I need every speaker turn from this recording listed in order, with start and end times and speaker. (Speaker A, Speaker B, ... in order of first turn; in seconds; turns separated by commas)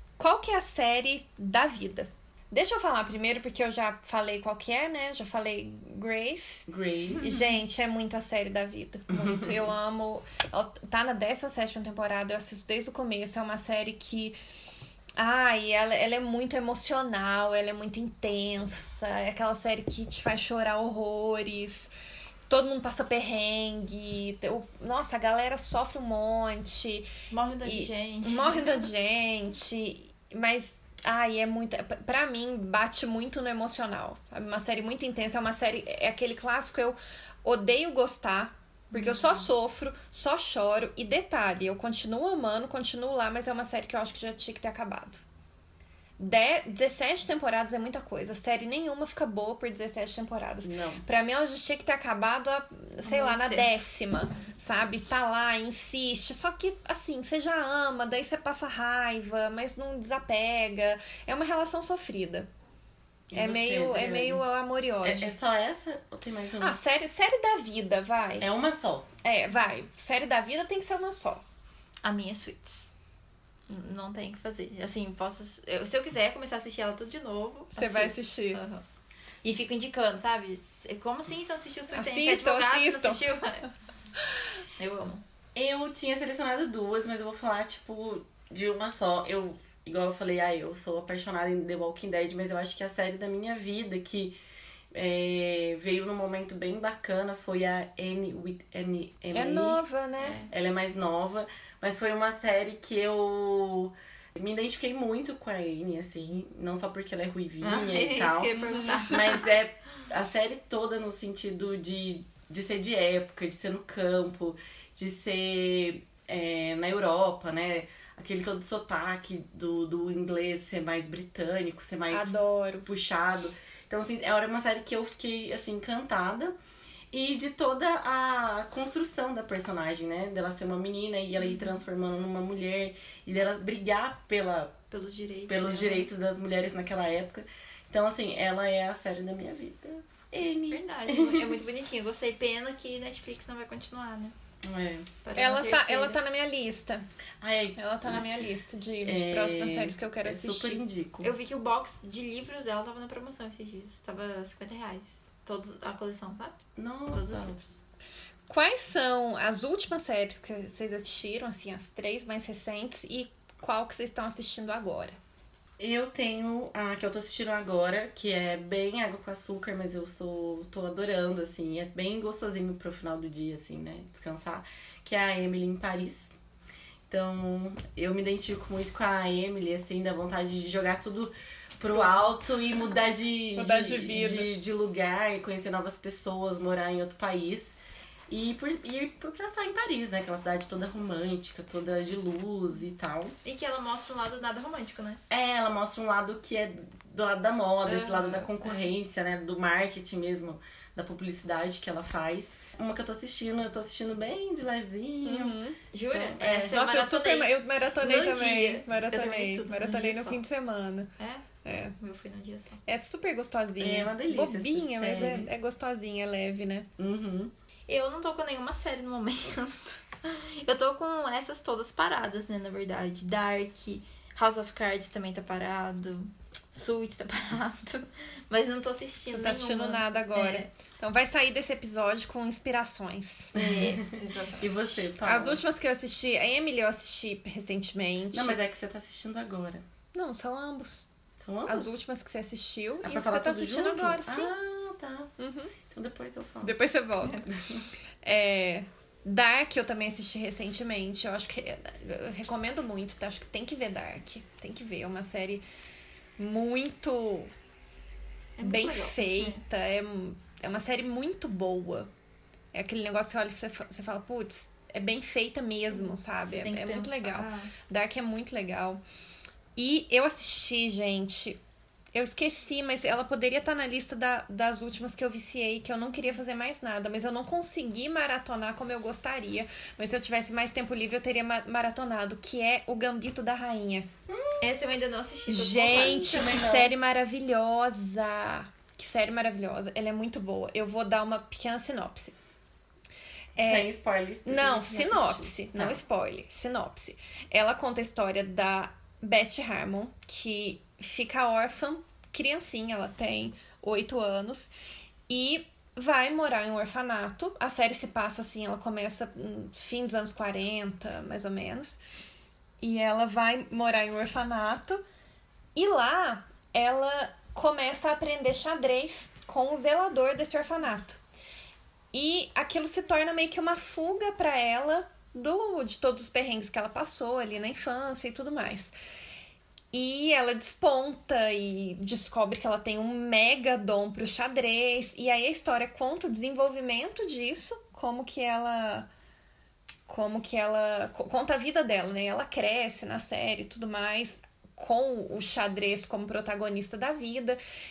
Speaker A: 0.2-14.4, Speaker B: 6.7-7.4, Speaker B: 9.1-9.7, Speaker A: 15.2-21.9, Speaker A: 22.5-27.1, Speaker C: 27.3-28.8, Speaker A: 27.6-45.2, Speaker C: 38.9-39.5, Speaker A: 46.2-62.5, Speaker B: 50.6-51.0, Speaker C: 53.0-53.7, Speaker B: 63.3-64.4, Speaker A: 63.3-65.3, Speaker B: 65.0-66.8, Speaker A: 66.6-68.5, Speaker B: 68.4-69.1, Speaker A: 69.2-71.4, Speaker C: 72.0-72.9, Speaker C: 73.7-78.8, Speaker A: 77.8-78.6, Speaker C: 79.4-83.7, Speaker A: 81.9-83.2, Speaker C: 84.8-85.2, Speaker B: 85.5-94.4, Speaker B: 94.9-99.8, Speaker A: 99.3-100.4, Speaker C: 100.2-100.5, Speaker B: 100.5-122.3, Speaker C: 107.6-109.5, Speaker A: 122.1-122.9, Speaker B: 122.8-126.5, Speaker B: 127.1-134.8, Speaker C: 134.9-136.1, Speaker B: 135.5-141.6, Speaker C: 140.7-144.3, Speaker B: 144.6-145.1, Speaker C: 145.2-146.2, Speaker A: 145.3-147.1, Speaker B: 147.4-148.5, Speaker A: 147.8-150.8, Speaker B: 149.0-151.3, Speaker C: 151.2-156.6, Speaker B: 156.8-157.6, Speaker C: 157.1-157.7, Speaker A: 158.5-165.2, Speaker B: 165.8-176.3, Speaker B: 177.1-187.8, Speaker A: 183.6-184.5, Speaker B: 188.3-193.3, Speaker C: 193.4-195.2, Speaker B: 195.3-206.8, Speaker C: 197.9-198.9, Speaker A: 205.2-205.8, Speaker C: 205.9-210.4, Speaker A: 206.7-211.1, Speaker C: 211.2-211.5, Speaker A: 211.6-211.9, Speaker C: 212.0-212.8, Speaker A: 212.9-216.9, Speaker B: 213.8-215.5, Speaker B: 217.0-217.5, Speaker C: 217.9-230.7, Speaker A: 229.3-233.6, Speaker C: 233.6-235.0, Speaker B: 233.6-235.6, Speaker A: 235.2-238.6, Speaker B: 238.3-239.8, Speaker A: 240.1-241.1, Speaker B: 241.4-241.9, Speaker A: 241.7-244.5, Speaker B: 243.0-245.3, Speaker A: 245.4-245.7, Speaker B: 245.9-246.8, Speaker A: 246.6-247.4, Speaker B: 247.5-247.8, Speaker A: 248.2-255.6, Speaker A: 256.4-257.5, Speaker C: 258.6-259.6, Speaker A: 258.6-262.1, Speaker A: 262.7-269.0, Speaker C: 265.9-267.7, Speaker A: 269.8-271.6, Speaker A: 272.1-284.1, Speaker B: 284.3-284.8, Speaker C: 284.6-286.5, Speaker A: 285.5-292.4, Speaker B: 285.9-286.9, Speaker A: 293.6-293.9, Speaker B: 293.6-296.0, Speaker A: 294.5-304.7, Speaker A: 305.3-312.0, Speaker A: 312.8-315.0, Speaker A: 315.8-321.2, Speaker A: 322.1-328.9, Speaker A: 329.9-339.1, Speaker A: 340.1-347.6